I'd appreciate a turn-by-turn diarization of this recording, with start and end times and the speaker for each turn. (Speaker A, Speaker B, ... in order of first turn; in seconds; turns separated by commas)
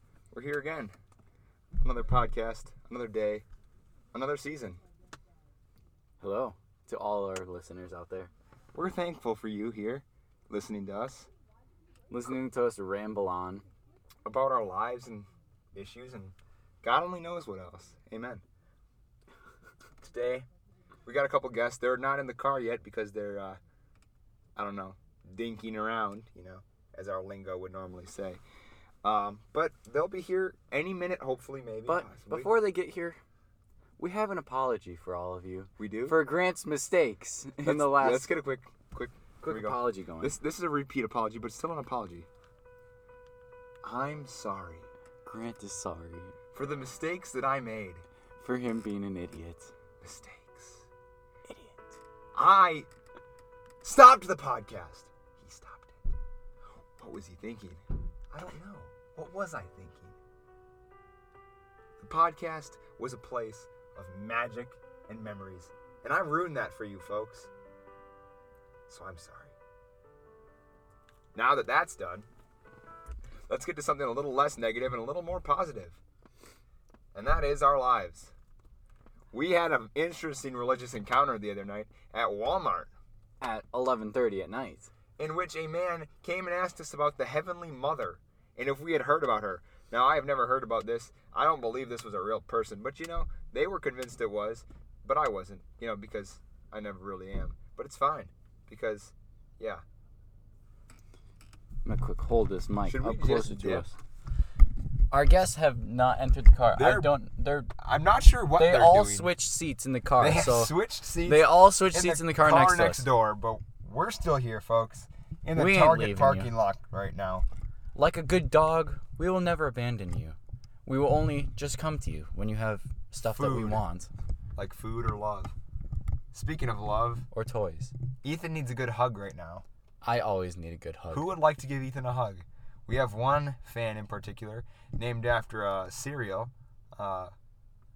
Speaker A: 0.3-0.9, Speaker A: 1.8-3.5, Speaker A: 4.1-4.8, Speaker B: 6.2-8.3, Speaker A: 8.7-11.3, Speaker B: 12.1-13.7, Speaker A: 14.2-18.4, Speaker B: 20.0-20.4, Speaker A: 21.1-23.6, Speaker A: 24.6-28.4, Speaker A: 29.0-32.5, Speaker B: 31.9-33.2, Speaker B: 34.0-38.3, Speaker A: 35.8-36.3, Speaker A: 37.6-42.3, Speaker B: 39.4-40.4, Speaker A: 43.8-44.9, Speaker B: 45.2-46.4, Speaker A: 46.5-48.0, Speaker B: 48.4-49.7, Speaker A: 50.0-50.9, Speaker B: 51.5-51.8, Speaker A: 52.4-52.9, Speaker A: 53.8-56.0, Speaker A: 57.0-60.1, Speaker A: 62.0-67.5, Speaker A: 68.9-69.5, Speaker A: 71.3-72.3, Speaker A: 73.5-76.0, Speaker A: 77.1-78.3, Speaker A: 79.3-82.9, Speaker B: 83.4-84.9, Speaker A: 85.2-99.8, Speaker B: 101.8-103.9, Speaker A: 102.8-103.9, Speaker B: 105.1-107.7, Speaker A: 106.8-107.2, Speaker A: 107.8-109.3, Speaker B: 108.5-113.1, Speaker A: 110.2-117.5, Speaker B: 115.5-116.5, Speaker B: 118.0-124.1, Speaker A: 123.2-123.8, Speaker A: 124.6-125.5, Speaker A: 126.3-127.2, Speaker B: 127.3-127.9, Speaker A: 128.2-129.7, Speaker B: 130.0-131.4, Speaker A: 131.1-137.3